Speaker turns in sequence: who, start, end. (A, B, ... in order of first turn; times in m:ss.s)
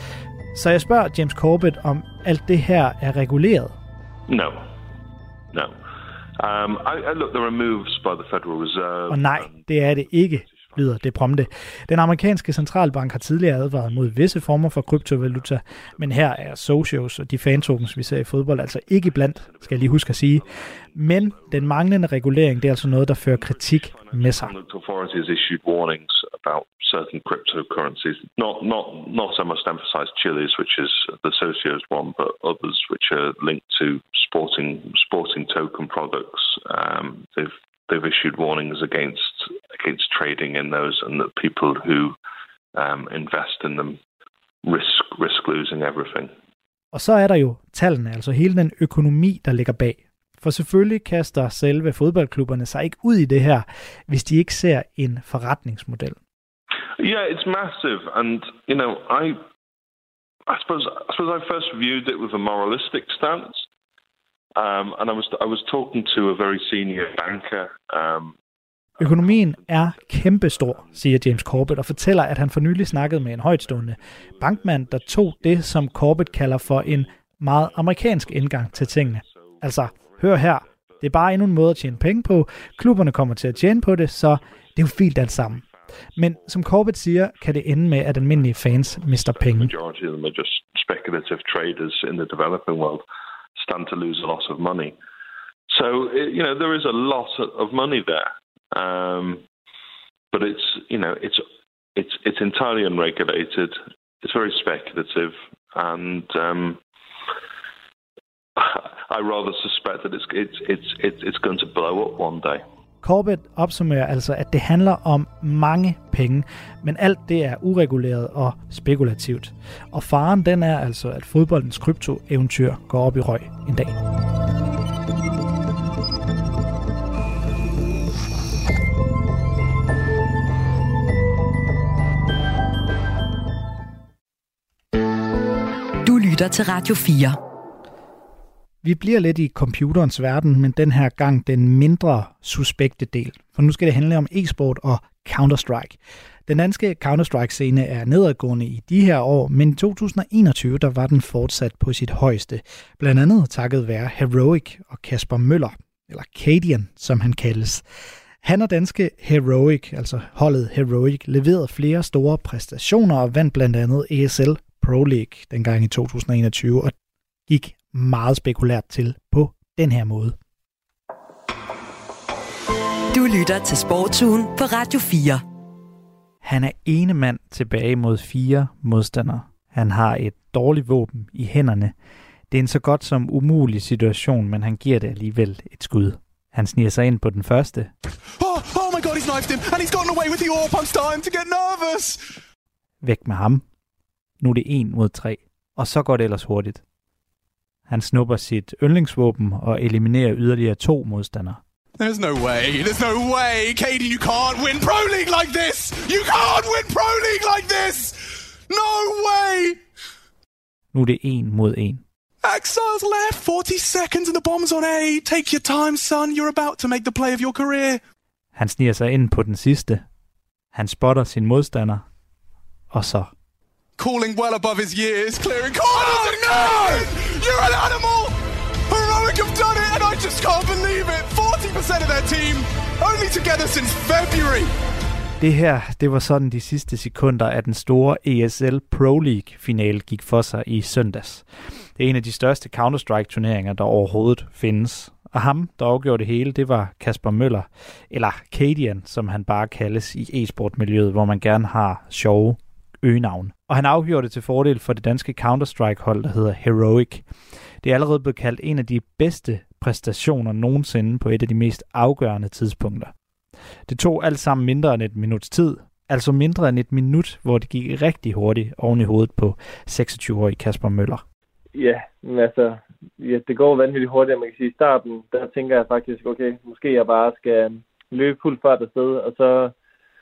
0:00.6-0:03.8 A
0:04.3-0:04.6 B
0:06.4-0:11.5 B
0:09.1-0:24.6 A
0:13.4-0:16.7 B
0:17.4-0:42.2 B
0:42.8-0:44.0 B
0:44.6-0:46.3 B
0:46.9-0:56.2 A
0:57.0-0:59.4 B
1:00.5-1:03.6 B
1:04.6-1:08.4 B
1:09.0-1:33.0 B
1:09.0-1:25.6 A
1:26.2-1:29.7 A
1:33.6-1:35.0 B
1:35.7-1:39.4 B
1:40.3-1:41.4 B
1:42.0-1:46.8 B
1:48.6-1:52.6 B
1:53.0-2:04.0 A
2:16.0-2:17.4 C
2:18.8-2:37.8 A
2:38.4-2:46.9 A
2:47.5-2:50.4 A
2:53.1-2:55.4 C
2:56.4-3:01.9 A
3:02.5-3:07.9 A
3:08.4-3:12.1 D
3:13.0-3:13.6 A
3:14.4-3:16.8 A
3:17.9-3:21.6 A
3:22.0-3:28.1 D
3:28.7-3:29.8 D
3:30.9-3:32.0 A
3:32.4-3:38.0 D
3:38.6-3:40.0 A
3:40.7-3:42.0 A
3:42.9-3:43.3 A
3:44.0-3:48.3 D
3:48.9-3:54.7 D
3:55.4-4:01.4 A
4:02.0-4:17.2 A
4:17.8-4:23.1 A
4:23.9-4:31.2 A
4:31.8-4:39.7 E